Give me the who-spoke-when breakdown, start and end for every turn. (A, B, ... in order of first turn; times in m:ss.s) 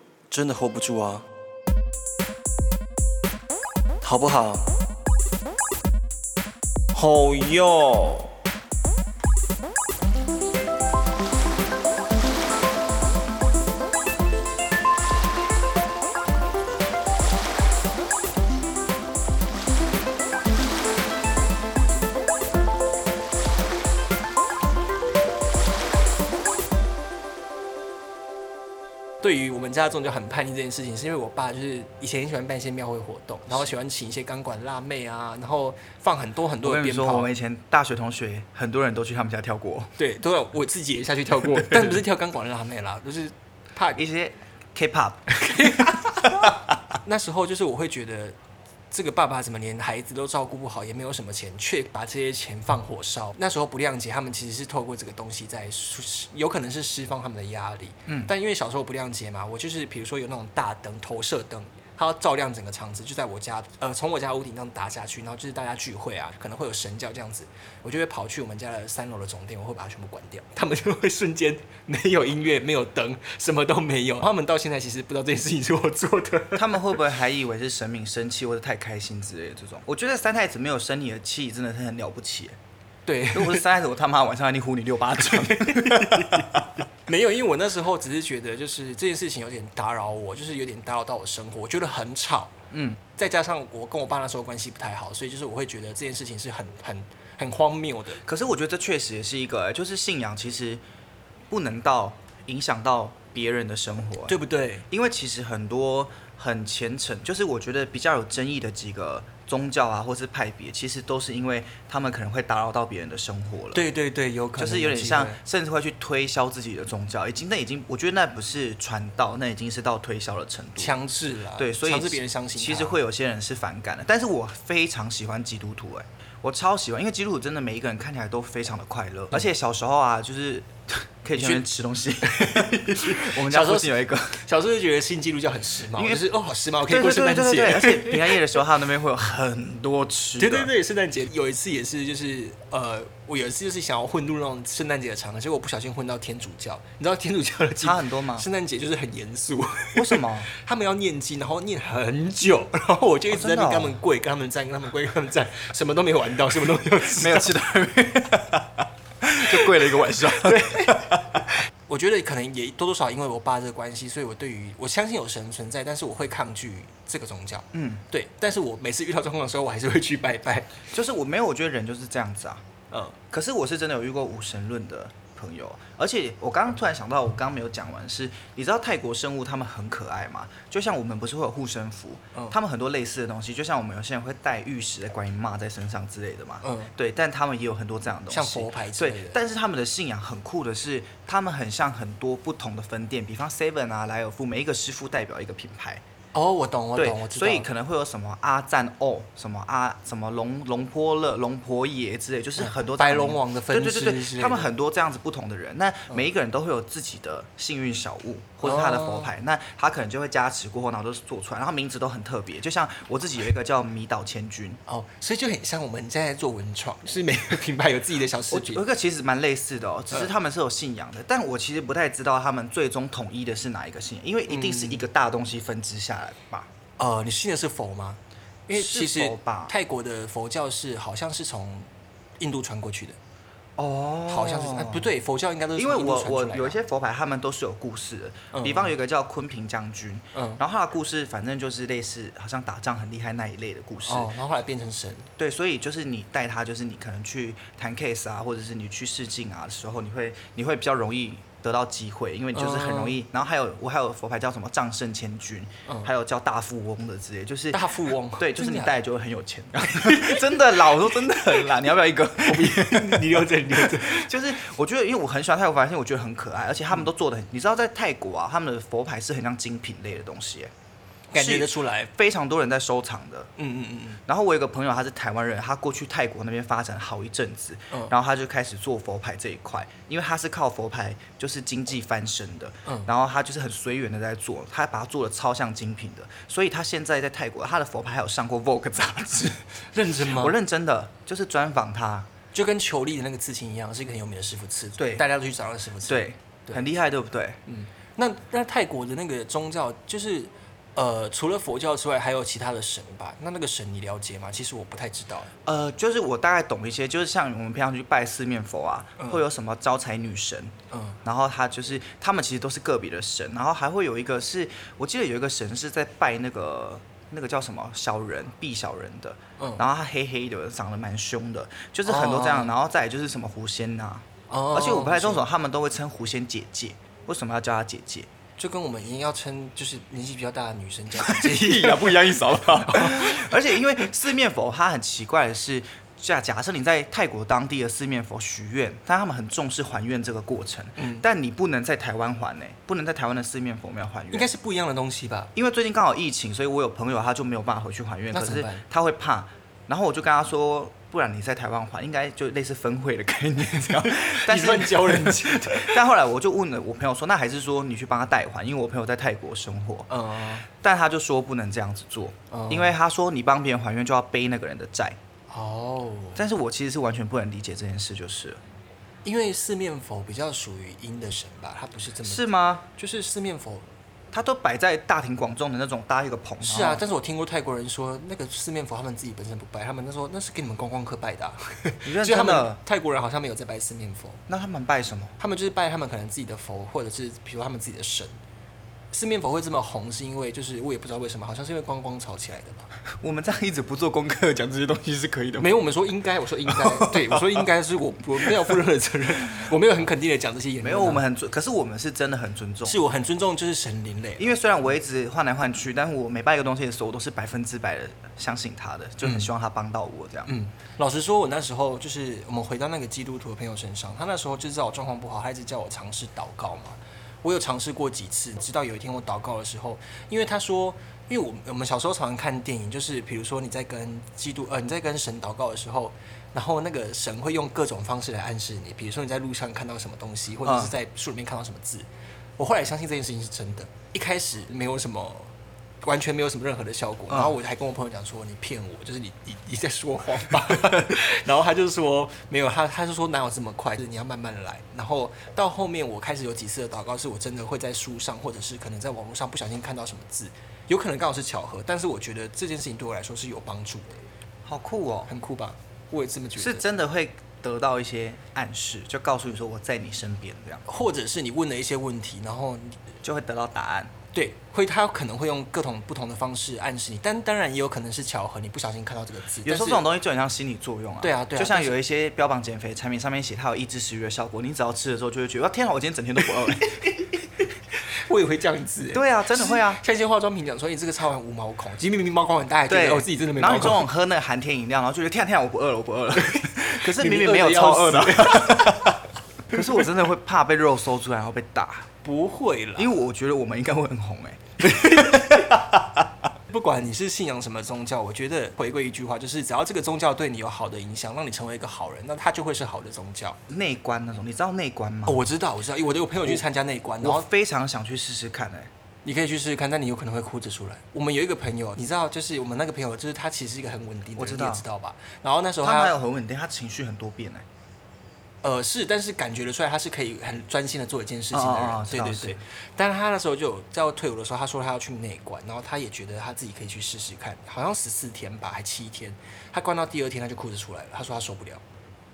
0:00.3-0:01.2 A
0:04.0-0:04.6 A
0:04.1-0:04.4 B
0:07.0-0:07.9 A
0:07.0-0:08.2 B
0:29.2-0:37.3 B
0:36.6-0:39.9 C
0:40.0-0:44.0 B
0:41.5-0:42.0 C
0:44.0-0:46.6 C
0:45.3-0:48.4 B
0:48.9-1:16.9 B
0:58.1-0:58.3 C
1:16.6-1:22.6 C
1:23.1-1:23.7 B
1:23.3-1:26.8 C
1:25.2-1:32.5 B
1:32.7-1:33.0 C
1:33.1-1:38.2 B
1:38.3-1:40.8 C
1:41.5-1:44.4 C
1:44.3-1:44.8 B
1:44.9-1:53.9 C
1:53.7-1:55.4 B
1:54.6-2:01.0 C
2:00.8-2:03.0 B
2:01.6-2:14.4 C
2:11.3-2:11.7 B
2:12.2-2:18.5 B
2:15.9-2:16.3 C
2:16.8-2:20.7 C
2:20.4-2:37.6 B
2:27.8-2:28.5 C
2:30.0-2:30.5 C
2:33.3-2:34.0 C
2:37.1-2:41.2 C
2:40.4-2:50.8 B
2:47.7-2:48.0 C
2:50.9-2:52.6 C
2:52.9-2:53.2 B
2:53.3-3:16.0 C
3:06.6-3:06.9 B
3:08.3-3:09.4 B
3:16.3-3:17.7 B
3:17.0-3:34.8 C
3:22.6-3:24.7 B
3:28.6-3:29.3 B
3:34.9-3:38.8 B
3:38.5-3:46.7 C
3:44.5-3:45.0 B
3:47.0-3:51.9 B
3:48.7-3:49.7 C
3:52.4-3:53.2 B
3:53.8-3:55.1 C
3:54.3-3:56.8 B
3:55.8-4:04.3 C
3:58.5-3:58.9 B
4:00.3-4:00.6 B
4:04.0-4:05.3 B
4:05.4-4:30.7 C
4:12.5-4:13.2 B
4:15.9-4:16.1 B
4:17.7-4:19.0 B
4:22.4-4:24.3 B
4:31.3-4:32.1 B
4:31.4-4:33.5 C
4:33.6-4:34.2 B
4:34.3-4:52.3 C
4:49.8-4:50.6 B
4:52.5-4:56.9 B
4:55.0-4:55.2 C
4:56.0-4:57.6 C
4:57.7-5:05.5 B
5:05.6-5:28.3 C
5:10.9-5:11.2 B
5:19.6-5:19.8 B
5:22.1-5:22.7 B
5:24.5-5:25.4 B
5:28.6-5:33.5 B
5:31.1-5:44.5 C
5:41.0-5:41.2 B
5:44.3-5:45.5 B
5:45.6-6:00.1 C
5:48.3-5:48.8 B
5:54.0-5:56.0 B
6:00.1-6:00.7 B
6:00.7-6:05.2 C
6:02.5-6:03.0 B
6:05.5-6:06.4 B
6:06.4-6:08.6 C
6:09.2-6:13.9 B
6:12.2-6:12.8 C
6:14.3-6:17.0 C
6:16.6-6:24.4 B
6:22.0-6:22.8 C
6:24.5-6:25.4 C
6:25.4-6:28.4 B
6:29.1-6:32.9 B
6:33.2-6:35.8 C
6:35.6-6:41.2 B
6:36.7-6:37.7 C
6:38.5-6:38.8 C
6:40.8-6:43.0 C
6:42.8-6:44.6 B
6:44.4-6:50.5 C
6:49.2-6:49.5 B
6:50.5-7:12.1 B
7:10.6-7:11.0 C
7:12.6-7:34.1 B
7:17.3-7:17.6 C
7:34.6-7:35.3 C
7:35.3-7:36.9 B
7:36.6-7:40.8 C
7:40.9-7:43.0 B
7:43.2-7:44.1 C
7:44.3-7:50.1 B
7:49.6-7:56.9 C
7:51.2-7:51.9 B
7:56.5-7:57.6 B
7:58.2-8:04.0 B
7:59.1-8:00.0 C
8:02.9-8:09.2 C
8:06.4-8:09.2 B
8:09.7-8:12.1 C
8:12.2-8:13.1 B
8:13.0-8:15.6 C
8:14.8-8:16.1 B
8:16.6-8:23.6 B
8:23.7-8:25.5 C
8:25.3-8:27.5 B
8:27.2-8:28.9 C
8:29.2-8:36.2 B
8:34.4-8:34.8 C
8:35.8-8:37.7 C
8:38.6-8:51.8 B
8:41.5-8:42.6 C